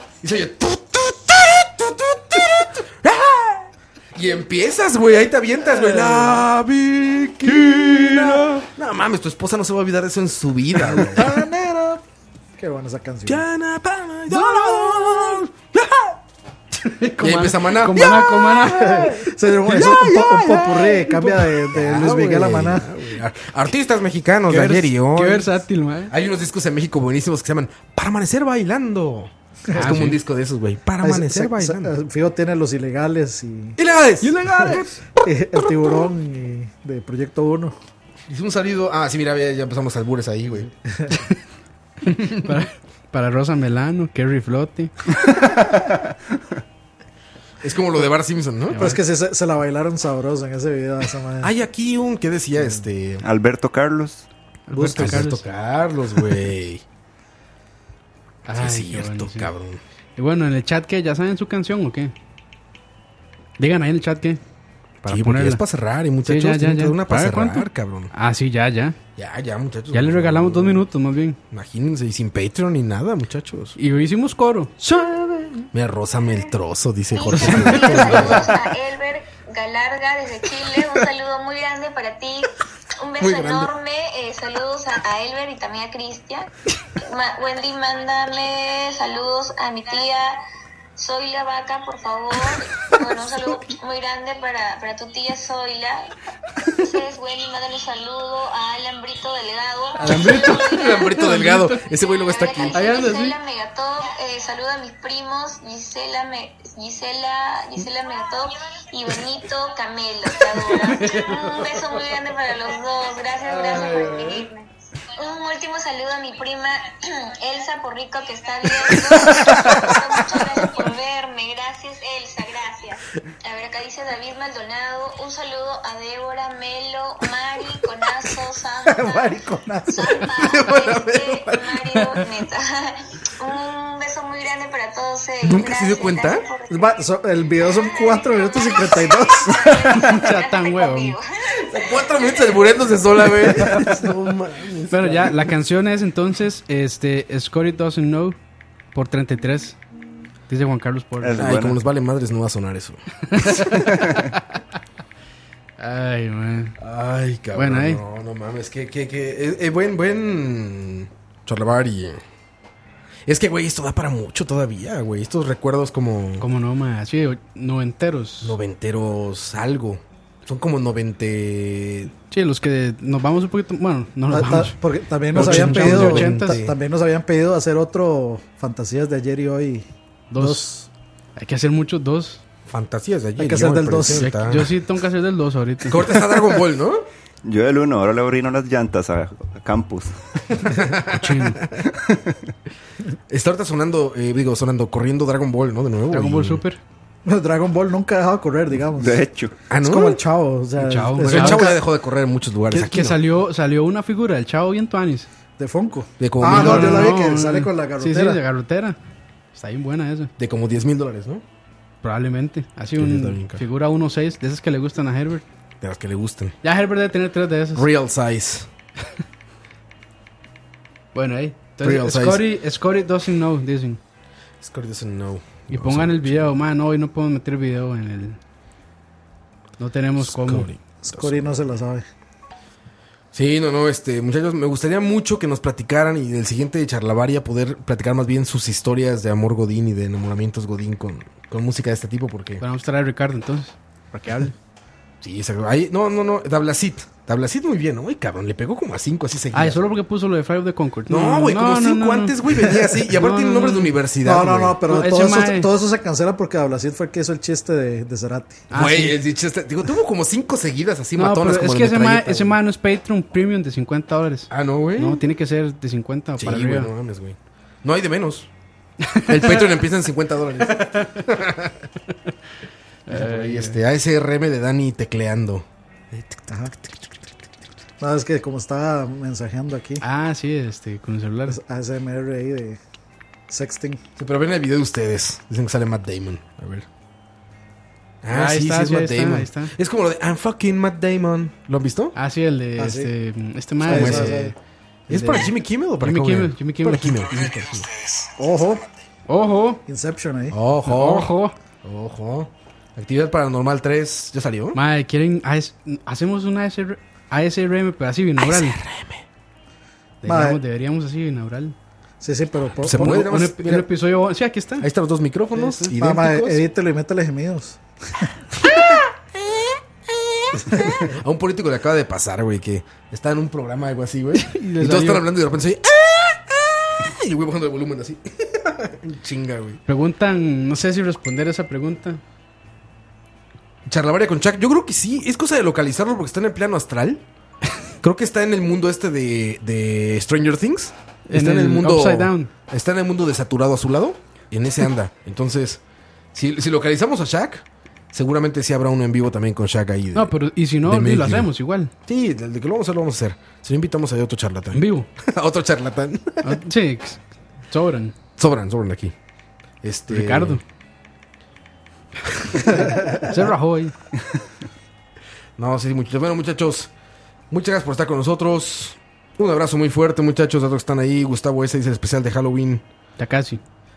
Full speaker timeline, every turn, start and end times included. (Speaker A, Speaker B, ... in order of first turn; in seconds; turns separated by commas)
Speaker A: 0.2-11.5, Speaker B: 6.0-6.3, Speaker C: 7.7-8.1, Speaker B: 10.9-12.0, Speaker B: 12.6-13.5, Speaker A: 13.3-16.2, Speaker C: 14.3-15.4, Speaker C: 16.8-20.0, Speaker A: 17.2-25.5, Speaker B: 18.6-22.9, Speaker C: 24.5-26.1, Speaker A: 26.1-31.9, Speaker B: 29.7-30.0, Speaker C: 29.7-30.2, Speaker B: 31.0-33.8, Speaker A: 33.8-35.0, Speaker C: 34.2-34.9, Speaker B: 34.5-37.8, Speaker A: 35.6-36.0, Speaker A: 38.3-40.7, Speaker B: 40.9-41.2, Speaker A: 42.1-42.6, Speaker C: 42.1-44.9, Speaker A: 47.6-48.9, Speaker C: 48.7-49.0, Speaker B: 48.7-51.5, Speaker A: 51.4-53.2, Speaker D: 53.2-54.3, Speaker C: 54.7-55.4, Speaker B: 54.7-55.2, Speaker A: 55.0-56.8, Speaker C: 58.5-59.5, Speaker A: 58.5-59.8, Speaker C: 60.2-62.1, Speaker C: 63.6-64.4, Speaker A: 65.0-68.1, Speaker C: 65.1-65.6, Speaker C: 66.2-69.0, Speaker A: 69.2-70.9, Speaker C: 69.9-71.4, Speaker A: 71.5-73.8, Speaker C: 73.8-75.7, Speaker A: 75.7-78.6, Speaker E: 77.1-86.5, Speaker C: 77.4-78.2, Speaker A: 83.2-83.7, Speaker E: 87.0-90.4, Speaker E: 91.0-96.1, Speaker E: 96.8-101.2, Speaker C: 100.0-101.8, Speaker A: 100.5-103.0, Speaker E: 101.9-129.3, Speaker C: 102.7-103.4, Speaker C: 110.8-111.7, Speaker A: 119.5-119.8, Speaker B: 128.9-130.3, Speaker E: 129.9-136.9, Speaker A: 130.3-132.0, Speaker A: 135.4-136.4, Speaker B: 136.7-139.9, Speaker E: 137.6-142.4, Speaker C: 139.9-141.2, Speaker A: 141.6-145.5, Speaker C: 143.4-143.9, Speaker C: 144.9-148.4, Speaker C: 148.9-149.8, Speaker C: 150.5-151.6, Speaker D: 151.2-151.8, Speaker A: 151.4-153.6, Speaker C: 153.2-154.6, Speaker C: 155.8-156.8, Speaker A: 156.8-162.2, Speaker C: 157.6-158.0, Speaker A: 163.3-166.4, Speaker C: 166.4-168.6, Speaker A: 168.4-172.1, Speaker C: 172.3-174.8, Speaker B: 174.3-179.8, Speaker C: 175.3-176.6, Speaker A: 175.3-176.8, Speaker C: 180.3-180.7, Speaker B: 180.4-180.9, Speaker C: 181.4-182.4, Speaker A: 182.7-184.7, Speaker B: 183.4-184.3, Speaker C: 184.1-186.1, Speaker A: 185.8-187.0, Speaker D: 187.4-190.6, Speaker A: 190.6-191.9, Speaker C: 191.1-191.6, Speaker D: 191.9-192.3, Speaker A: 193.3-196.6, Speaker C: 196.1-196.8, Speaker B: 197.3-199.2, Speaker D: 199.0-199.5, Speaker A: 199.7-200.2, Speaker B: 199.8-201.8, Speaker C: 200.8-201.8, Speaker A: 201.2-203.2, Speaker C: 202.7-205.3, Speaker B: 205.6-208.4, Speaker A: 206.2-207.2, Speaker C: 206.4-209.0, Speaker C: 209.5-210.3, Speaker A: 210.4-211.4, Speaker C: 212.0-215.4, Speaker A: 213.0-213.6, Speaker A: 215.8-216.6, Speaker C: 216.6-217.9, Speaker A: 217.8-218.7, Speaker C: 221.1-224.0, Speaker A: 221.8-222.5, Speaker A: 224.6-226.5, Speaker C: 225.7-228.4, Speaker C: 229.8-230.7, Speaker A: 230.2-231.4, Speaker B: 231.0-232.0, Speaker A: 233.3-242.6, Speaker C: 242.6-244.6, Speaker A: 245.2-249.9, Speaker C: 249.5-252.4, Speaker A: 251.1-254.8, Speaker C: 253.1-253.9, Speaker B: 254.2-258.6, Speaker C: 254.9-255.7, Speaker C: 258.7-259.2, Speaker A: 258.7-262.6, Speaker C: 261.2-266.9, Speaker A: 264.5-265.2, Speaker A: 266.4-268.5, Speaker C: 269.1-269.7, Speaker A: 269.2-271.8, Speaker C: 270.9-271.2, Speaker C: 273.1-273.8, Speaker A: 273.1-276.9, Speaker B: 278.0-280.0, Speaker C: 280.0-281.6, Speaker B: 281.5-282.8, Speaker B: 283.5-284.0, Speaker A: 284.2-286.9, Speaker A: 288.2-292.1, Speaker C: 288.3-289.7, Speaker C: 292.1-294.5, Speaker B: 292.8-293.1, Speaker B: 293.8-294.5, Speaker A: 293.9-294.5, Speaker A: 295.1-297.9, Speaker C: 295.2-295.5, Speaker C: 296.0-297.2, Speaker B: 298.4-298.9, Speaker C: 299.3-299.8, Speaker B: 299.9-300.6, Speaker A: 300.5-304.8, Speaker C: 300.9-301.6, Speaker C: 304.8-308.8, Speaker A: 308.4-309.2, Speaker C: 310.2-311.8, Speaker B: 310.3-310.6, Speaker B: 312.2-313.2, Speaker A: 312.8-313.9, Speaker C: 312.9-314.9, Speaker A: 314.8-316.6, Speaker C: 315.5-315.9, Speaker B: 315.9-318.2, Speaker A: 320.5-329.8, Speaker C: 324.3-325.2, Speaker C: 329.9-332.2, Speaker A: 333.9-337.2, Speaker A: 338.0-345.8, Speaker C: 341.3-342.5, Speaker A: 346.3-351.5, Speaker C: 350.1-351.9, Speaker A: 352.1-356.6, Speaker C: 354.7-355.1, Speaker C: 356.4-358.1, Speaker A: 358.4-359.1, Speaker A: 359.8-360.6, Speaker C: 360.1-360.6, Speaker C: 363.2-364.0, Speaker A: 365.6-366.9, Speaker A: 367.5-372.8, Speaker C: 373.2-373.6